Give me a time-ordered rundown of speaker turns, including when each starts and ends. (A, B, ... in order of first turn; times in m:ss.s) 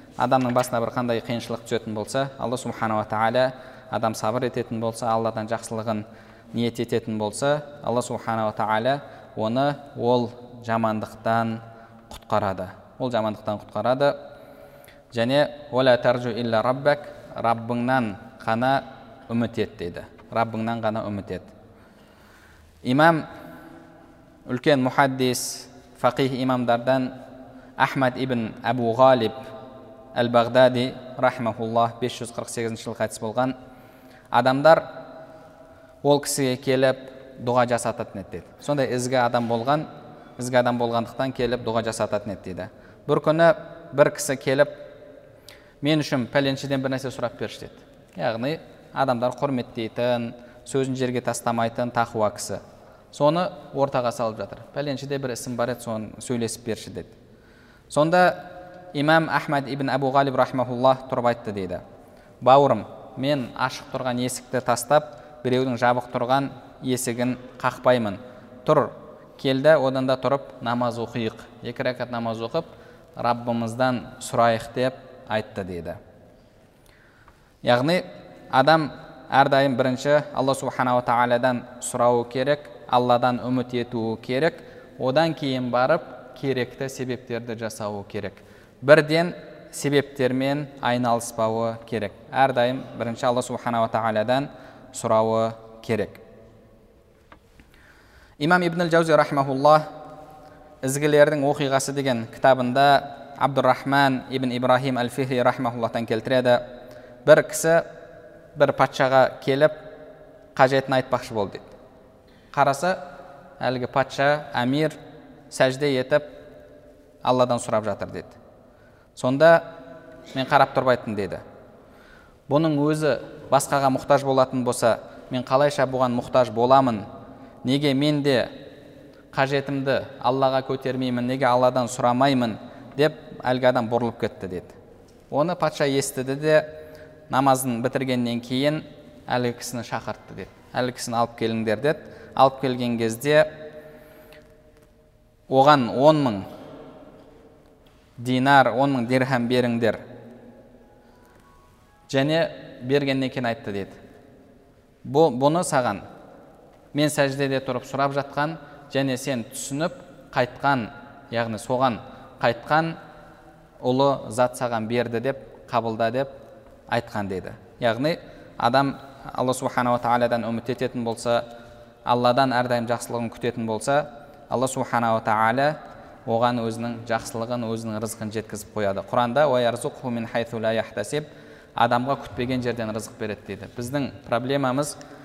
0:00.2-0:14.2 A
0:15.1-0:21.5 A
0:22.8-0:23.3 A
0:24.5-0:27.1 A
0:27.8-0:29.4 A
0:30.1-0:33.6 A
0:34.3-0:34.9 A
0:36.0-0:44.8 A
0:45.8-0:52.6 A
0:53.1-0:57.1 A
0:57.9-1:01.8 A
1:02.4-1:16.0 A
1:17.6-1:36.2 A
1:38.4-1:39.9 A
1:40.8-1:46.6 A
1:47.2-1:47.8 A
1:48.6-1:49.8 A
1:50.6-1:51.7 A
1:52.5-1:53.0 A
1:53.6-1:55.0 A
1:55.5-1:56.3 A
1:57.2-1:58.4 A
1:59.2-1:59.6 A
2:00.3-2:01.4 A
2:02.5-2:07.0 A
2:07.6-2:08.5 A
2:09.3-2:14.7 A
2:15.3-2:16.7 A
2:17.3-2:23.5 A
2:25.5-2:26.4 A
2:28.2-2:30.0 A
2:32.1-2:34.0 A
2:35.0-2:36.0 A
2:36.9-2:43.0 A
2:43.8-2:46.3 A
2:46.9-2:51.4 A
2:52.1-3:01.3 A
3:01.8-3:05.0 A